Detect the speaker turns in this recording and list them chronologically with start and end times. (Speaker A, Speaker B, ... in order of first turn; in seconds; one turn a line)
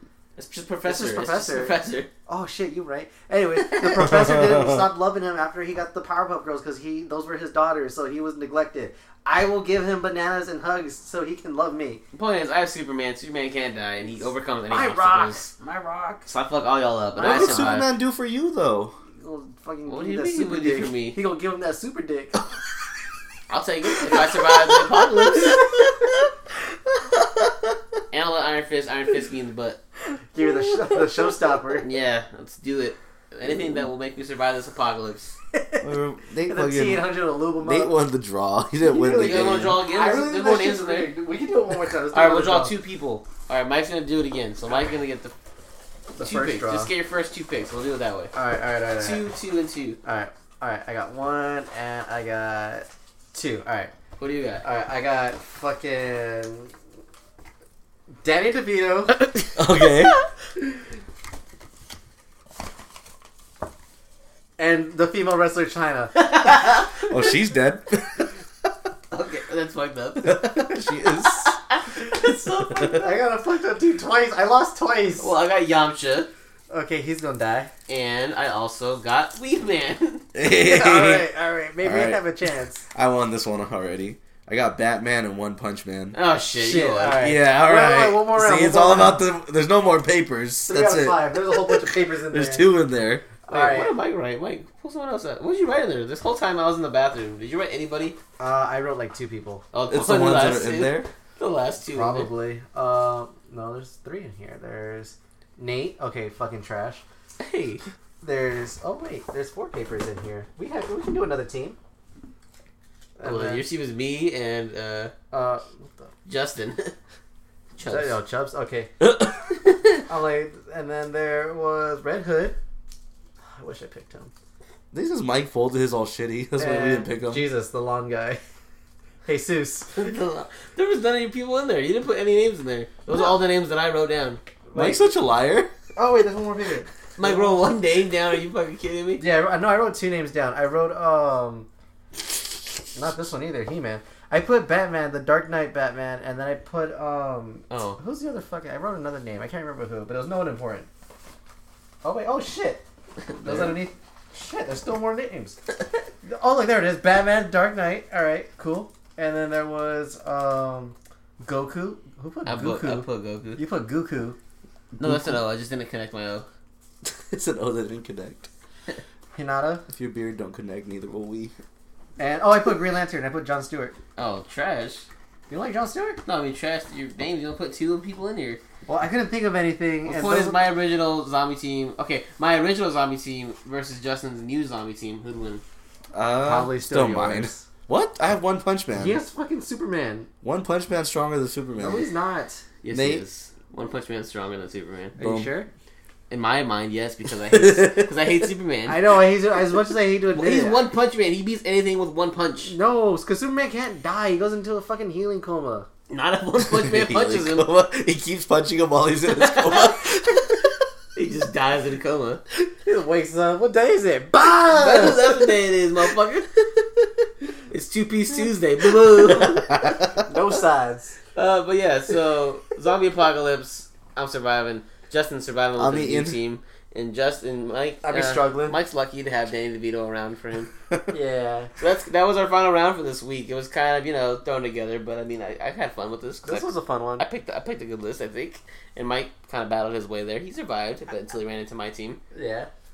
Speaker A: 0.4-2.1
Speaker B: 0.8-12.0
Speaker A: 12.1-15.5
Speaker B: 14.7-16.3
Speaker A: 16.2-17.9
Speaker B: 17.2-17.8
Speaker C: 17.2-18.9
Speaker B: 19.2-22.4
Speaker A: 19.9-21.2
Speaker A: 23.5-25.7
Speaker A: 28.1-29.8
Speaker B: 30.3-31.9
Speaker A: 31.8-35.4
Speaker B: 35.5-35.9
Speaker C: 35.8-37.1
Speaker B: 36.5-37.9
Speaker C: 37.6-39.8
Speaker B: 38.8-42.7
Speaker A: 39.1-41.1
Speaker A: 42.1-45.3
Speaker B: 46.1-46.9
Speaker A: 46.2-48.3
Speaker B: 48.3-49.3
Speaker A: 49.0-50.0
Speaker B: 50.0-53.9
Speaker A: 54.2-54.6
Speaker B: 54.6-56.7
Speaker B: 58.2-59.2
Speaker C: 59.5-60.1
Speaker B: 64.6-66.2
Speaker A: 66.3-66.8
Speaker C: 67.0-68.3
Speaker A: 69.1-73.0
Speaker C: 70.2-71.5
Speaker B: 72.8-75.3
Speaker A: 75.2-76.3
Speaker B: 76.7-77.7
Speaker A: 77.9-80.2
Speaker C: 80.3-81.3
Speaker B: 80.4-82.8
Speaker C: 81.8-82.2
Speaker C: 82.9-86.2
Speaker A: 86.1-87.2
Speaker B: 86.5-89.2
Speaker C: 87.2-93.2
Speaker B: 90.7-92.7
Speaker B: 93.4-93.9
Speaker A: 93.5-98.2
Speaker B: 98.4-99.7
Speaker A: 99.7-102.3
Speaker C: 99.9-101.1
Speaker B: 101.9-107.0
Speaker A: 107.4-107.8
Speaker B: 108.2-111.8
Speaker B: 113.2-113.6
Speaker A: 113.2-115.1
Speaker B: 115.3-115.9
Speaker A: 116.2-116.9
Speaker A: 117.8-118.2
Speaker B: 117.8-118.9
Speaker C: 119.1-119.4
Speaker B: 120.1-122.5
Speaker B: 123.5-124.3
Speaker C: 124.9-127.5
Speaker B: 126.6-128.4
Speaker B: 129.2-130.1
Speaker A: 129.9-134.6
Speaker B: 134.7-135.0
Speaker C: 134.7-135.7
Speaker B: 135.9-137.6
Speaker A: 137.2-139.2
Speaker B: 139.2-141.7
Speaker B: 142.9-150.9
Speaker A: 147.7-148.0
Speaker B: 152.0-152.8
Speaker B: 153.4-155.6
Speaker C: 153.4-153.7
Speaker B: 156.2-163.1
Speaker A: 162.4-163.6
Speaker B: 163.6-164.4
Speaker A: 165.0-166.4
Speaker C: 165.0-165.4
Speaker C: 167.0-168.5
Speaker B: 169.3-169.8
Speaker C: 169.9-171.5
Speaker B: 172.2-173.9
Speaker A: 174.2-175.1
Speaker B: 175.5-176.2
Speaker A: 176.2-178.6
Speaker B: 178.8-180.6
Speaker A: 180.1-185.6
Speaker C: 186.1-189.2
Speaker B: 186.4-187.6
Speaker B: 188.9-190.3
Speaker C: 190.4-192.1
Speaker B: 191.8-192.6
Speaker A: 192.8-195.2
Speaker C: 192.9-193.2
Speaker B: 195.2-195.7
Speaker C: 195.2-195.5
Speaker A: 196.3-199.1
Speaker C: 197.5-198.1
Speaker B: 198.9-200.9
Speaker A: 200.3-202.7
Speaker B: 202.6-205.9
Speaker A: 206.1-207.7
Speaker C: 206.6-210.8
Speaker A: 209.3-210.1
Speaker A: 211.1-212.4
Speaker B: 212.8-215.5
Speaker A: 214.7-216.9
Speaker A: 217.7-219.9
Speaker C: 219.7-220.0
Speaker B: 220.2-221.2
Speaker A: 221.3-230.7
Speaker C: 225.8-226.4
Speaker B: 228.0-228.8
Speaker B: 231.1-231.7
Speaker A: 231.8-242.2
Speaker B: 236.4-237.2
Speaker B: 242.3-242.7